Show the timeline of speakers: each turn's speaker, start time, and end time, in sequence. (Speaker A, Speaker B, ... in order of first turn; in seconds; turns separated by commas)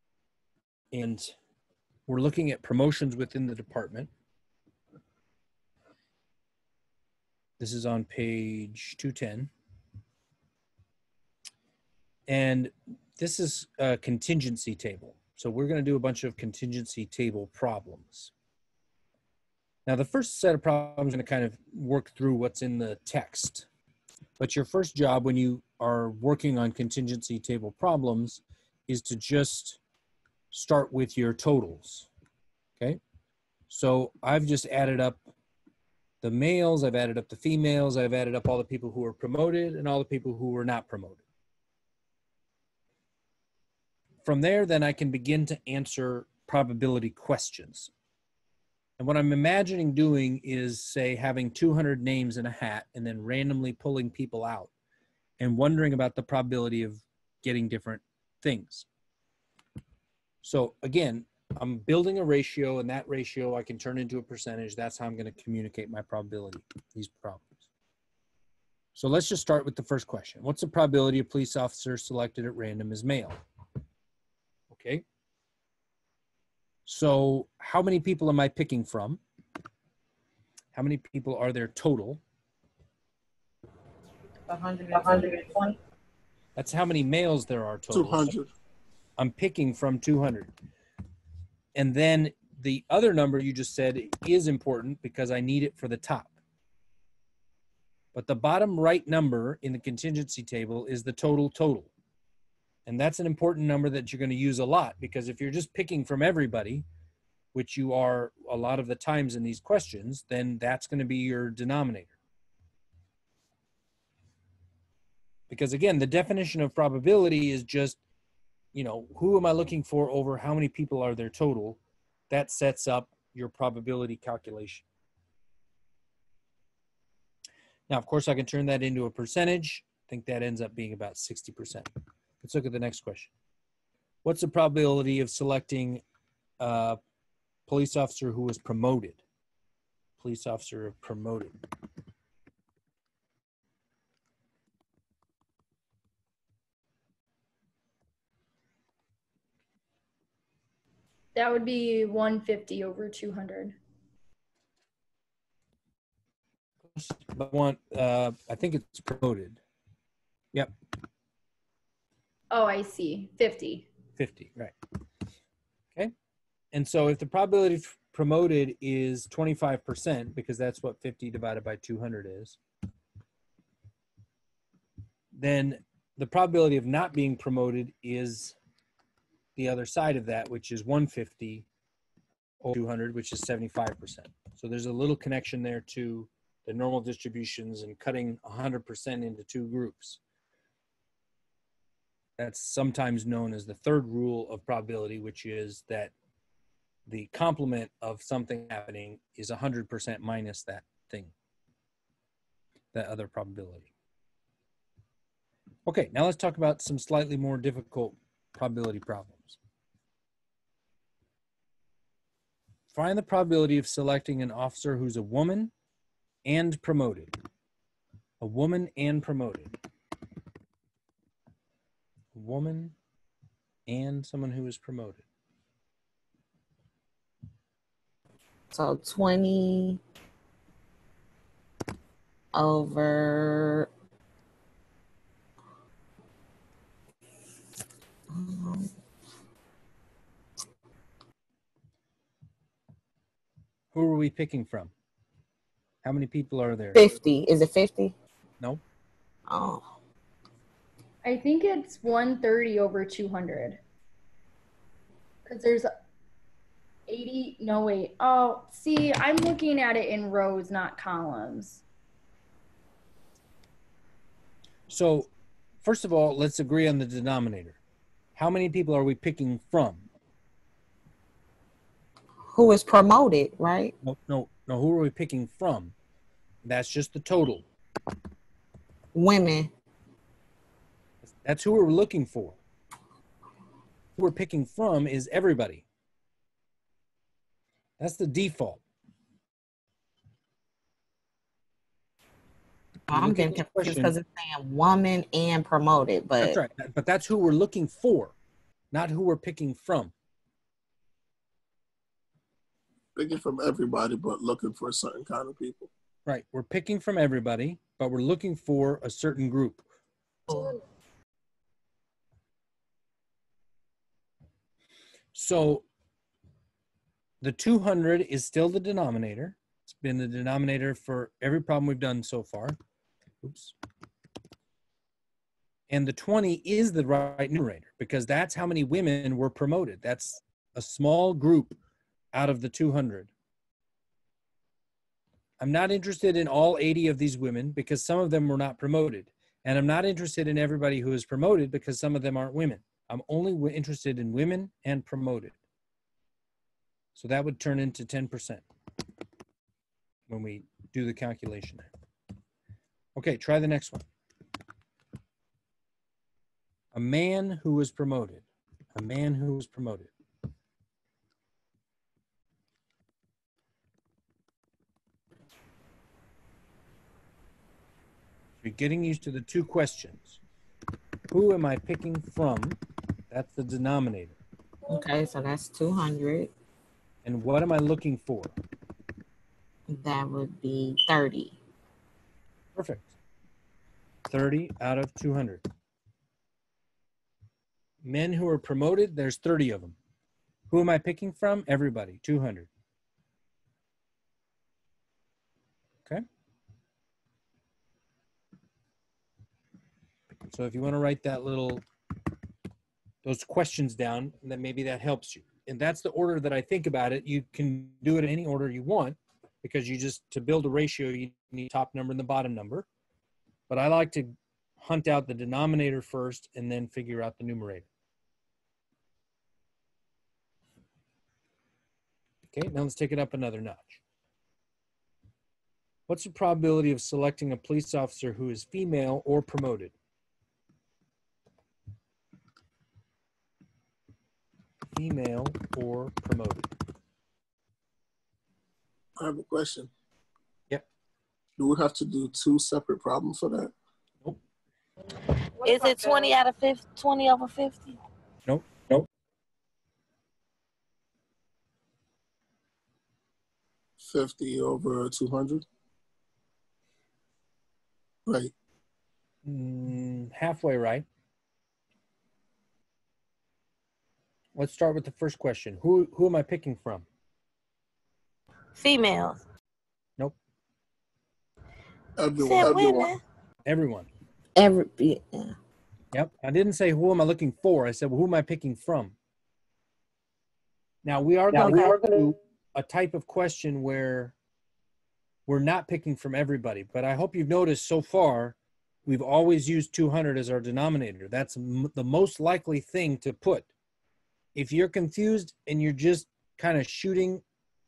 Speaker A: 0.9-1.3, Speaker A: 2.1-4.1, Speaker A: 7.6-9.5, Speaker A: 12.3-18.3, Speaker A: 19.9-23.7, Speaker A: 24.4-29.8, Speaker A: 30.5-32.1, Speaker A: 33.7-35.2, Speaker A: 36.2-41.2, Speaker A: 44.2-47.9, Speaker A: 49.0-54.7, Speaker A: 55.4-58.9, Speaker A: 60.4-67.6, Speaker A: 69.0-73.4, Speaker A: 74.7-75.0, Speaker A: 76.8-79.2, Speaker A: 80.7-82.2, Speaker B: 84.5-85.8, Speaker A: 86.5-88.3, Speaker C: 87.9-88.5, Speaker A: 89.2-90.5, Speaker A: 91.7-96.3, Speaker A: 98.1-101.9, Speaker A: 102.8-106.8, Speaker A: 107.5-112.1, Speaker A: 115.5-118.0, Speaker A: 118.7-121.8, Speaker A: 122.3-124.8, Speaker A: 127.9-131.9, Speaker A: 132.4-133.3, Speaker A: 134.2-136.0, Speaker A: 136.6-137.0, Speaker A: 137.7-139.2, Speaker A: 140.2-141.5, Speaker D: 151.3-153.8, Speaker A: 156.9-159.6, Speaker D: 162.5-163.9, Speaker A: 164.2-164.7, Speaker A: 166.7-172.6, Speaker A: 175.3-178.6, Speaker A: 179.6-181.7, Speaker A: 182.6-190.2, Speaker A: 192.4-196.1, Speaker A: 197.1-201.3, Speaker A: 202.9-203.9, Speaker A: 205.8-209.6, Speaker A: 212.9-215.7, Speaker A: 216.4-217.3, Speaker A: 218.4-219.7, Speaker A: 222.3-222.9, Speaker A: 223.9-225.2, Speaker B: 228.7-230.0, Speaker B: 232.5-233.9, Speaker B: 238.3-238.9, Speaker A: 243.9-244.9, Speaker A: 246.0-247.1, Speaker B: 246.9-248.1, Speaker B: 249.5-249.9, Speaker D: 251.2-253.8, Speaker D: 255.4-255.9, Speaker D: 257.1-261.8, Speaker A: 264.9-265.3, Speaker A: 265.8-267.8, Speaker A: 268.4-270.1, Speaker B: 272.4-273.9, Speaker A: 274.0-275.9, Speaker A: 276.6-277.6, Speaker B: 279.1-279.7, Speaker A: 281.4-282.6, Speaker A: 284.1-285.8, Speaker A: 288.0-288.8, Speaker B: 293.1-296.6, Speaker A: 293.1-294.1, Speaker A: 296.4-298.3, Speaker A: 298.9-300.1, Speaker C: 303.1-305.9, Speaker A: 306.2-309.8, Speaker B: 310.5-310.8, Speaker A: 315.3-315.9, Speaker A: 317.4-322.8, Speaker A: 323.4-323.7, Speaker A: 325.9-331.8, Speaker A: 332.3-333.3, Speaker A: 335.6-345.6, Speaker A: 347.1-348.6, Speaker A: 350.3-351.9, Speaker A: 353.1-354.1, Speaker A: 356.9-360.1, Speaker A: 368.6-370.4, Speaker A: 371.3-372.8, Speaker A: 373.3-374.4, Speaker B: 374.9-376.5, Speaker A: 377.2-378.5, Speaker B: 379.9-381.6, Speaker A: 382.8-383.1, Speaker A: 384.3-385.6, Speaker A: 388.0-389.9, Speaker A: 390.7-392.7, Speaker A: 400.5-401.8, Speaker A: 403.2-412.9, Speaker A: 413.7-417.9, Speaker A: 422.5-424.0, Speaker A: 426.1-429.9, Speaker A: 434.9-436.7, Speaker C: 439.2-439.9, Speaker C: 441.6-443.7, Speaker B: 445.6-446.3, Speaker E: 445.6-447.9, Speaker A: 448.5-449.0, Speaker C: 454.0-455.6, Speaker C: 458.2-458.5, Speaker A: 459.4-461.1, Speaker A: 464.6-467.1, Speaker E: 468.8-469.4, Speaker C: 472.2-473.1, Speaker E: 472.4-473.2, Speaker A: 473.6-474.1, Speaker B: 474.5-475.5, Speaker A: 476.1-479.1, Speaker A: 481.0-484.3, Speaker E: 481.6-481.9, Speaker A: 485.5-493.7, Speaker A: 494.5-497.4